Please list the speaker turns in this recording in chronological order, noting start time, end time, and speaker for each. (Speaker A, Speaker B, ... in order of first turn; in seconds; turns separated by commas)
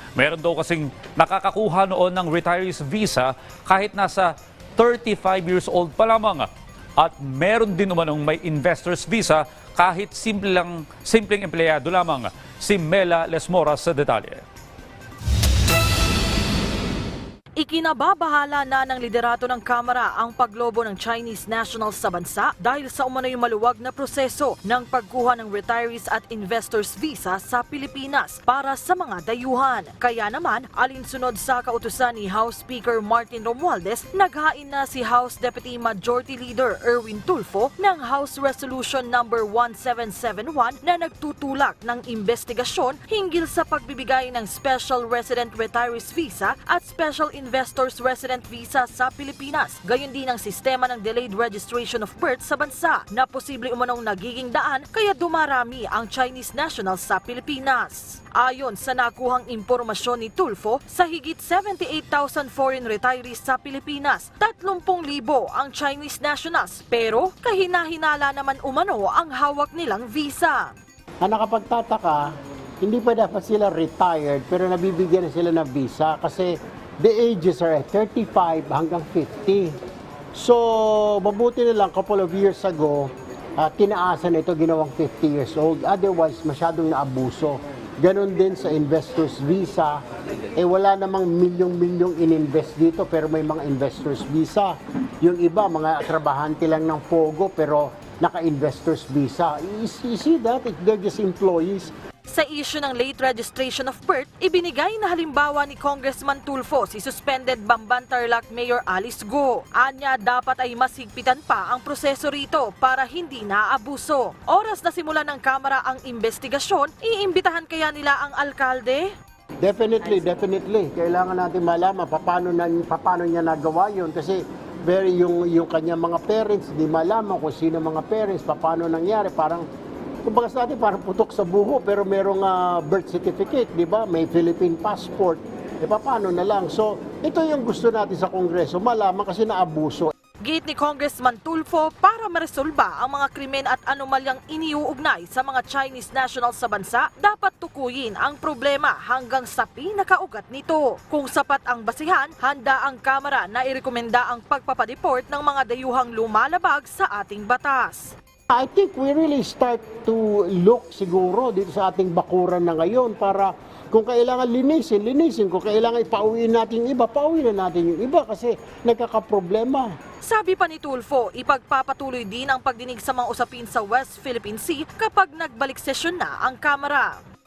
Speaker A: 0.2-14.4, Speaker B: 17.6-70.7, Speaker C: 71.2-72.3, Speaker C: 72.8-79.8, Speaker C: 80.3-90.0, Speaker C: 90.6-101.9, Speaker B: 102.3-119.1, Speaker C: 119.6-129.7, Speaker C: 130.2-140.1, Speaker B: 140.4-158.2, Speaker C: 158.5-169.9, Speaker B: 170.2-177.2